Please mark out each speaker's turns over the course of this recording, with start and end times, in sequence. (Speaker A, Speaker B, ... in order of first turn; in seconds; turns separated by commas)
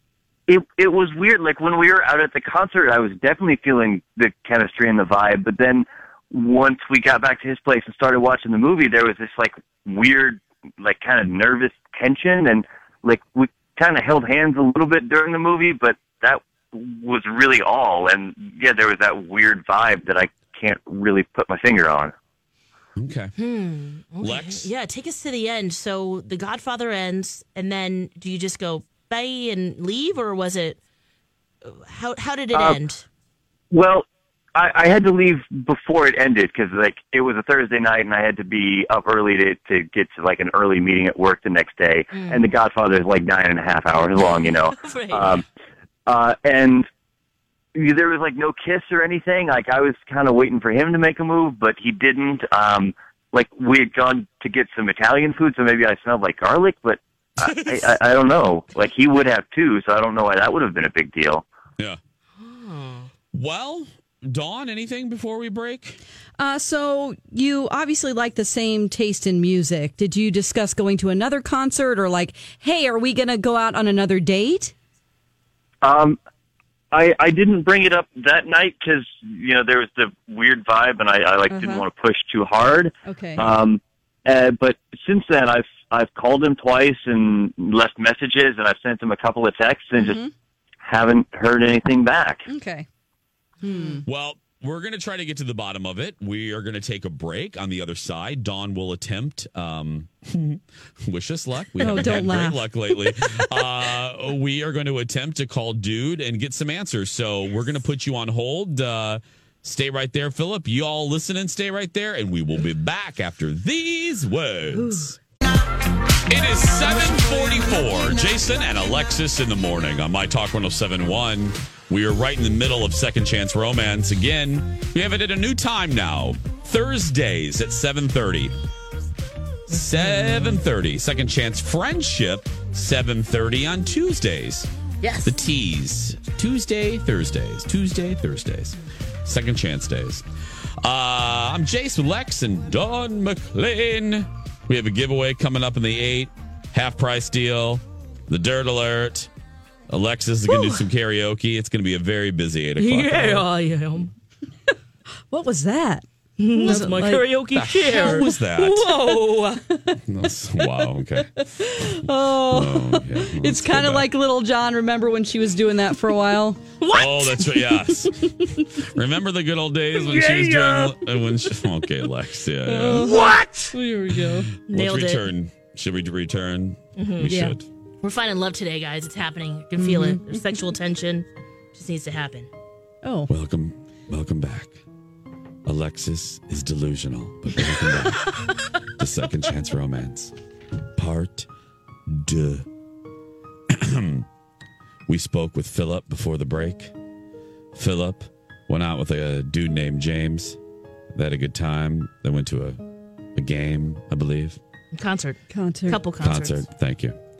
Speaker A: 0.5-22.1, Speaker B: 23.0-23.3, Speaker C: 23.4-30.8, Speaker B: 24.2-24.7, Speaker C: 31.6-33.0, Speaker A: 32.5-32.8, Speaker A: 33.7-45.4, Speaker C: 42.1-42.5, Speaker C: 44.2-45.4, Speaker A: 46.1-46.9, Speaker A: 47.7-61.4, Speaker B: 57.4-58.0, Speaker C: 62.4-63.1, Speaker B: 63.3-66.0, Speaker D: 66.4-74.7, Speaker A: 75.8-76.2, Speaker A: 76.9-90.2, Speaker D: 81.5-81.8, Speaker D: 83.0-83.5, Speaker D: 90.0-90.3, Speaker A: 90.8-92.4, Speaker D: 92.5-92.8, Speaker D: 93.6-94.0, Speaker B: 94.0-115.2, Speaker D: 101.8-103.4, Speaker B: 116.3-128.5, Speaker B: 129.7-134.7, Speaker C: 129.7-130.6, Speaker C: 135.0-135.4, Speaker B: 135.2-140.2, Speaker B: 140.8-149.3, Speaker B: 149.9-153.5, Speaker C: 150.5-150.8, Speaker C: 152.8-154.1, Speaker D: 155.3-157.2, Speaker C: 156.4-159.6, Speaker B: 157.5-159.0, Speaker D: 159.0-159.9, Speaker B: 160.1-161.3, Speaker D: 161.4-166.6, Speaker B: 162.5-164.1, Speaker C: 166.8-167.5, Speaker B: 166.9-168.3, Speaker D: 168.0-168.6, Speaker B: 168.8-173.2, Speaker C: 170.2-170.6, Speaker D: 172.7-174.5, Speaker C: 173.0-173.3, Speaker B: 174.7-177.7, Speaker C: 174.7-175.3, Speaker C: 177.0-177.3, Speaker D: 177.2-177.6, Speaker C: 178.0-182.5, Speaker D: 179.8-180.4, Speaker D: 183.0-183.3, Speaker B: 183.3-184.8, Speaker B: 185.7-188.3, Speaker B: 189.0-190.3, Speaker B: 190.9-191.5, Speaker B: 192.1-192.7, Speaker B: 193.7-194.2, Speaker B: 195.1-196.9, Speaker B: 197.7-200.6, Speaker B: 201.1-202.8, Speaker B: 203.3-204.6, Speaker C: 204.9-206.6, Speaker D: 205.5-206.0, Speaker B: 206.2-207.2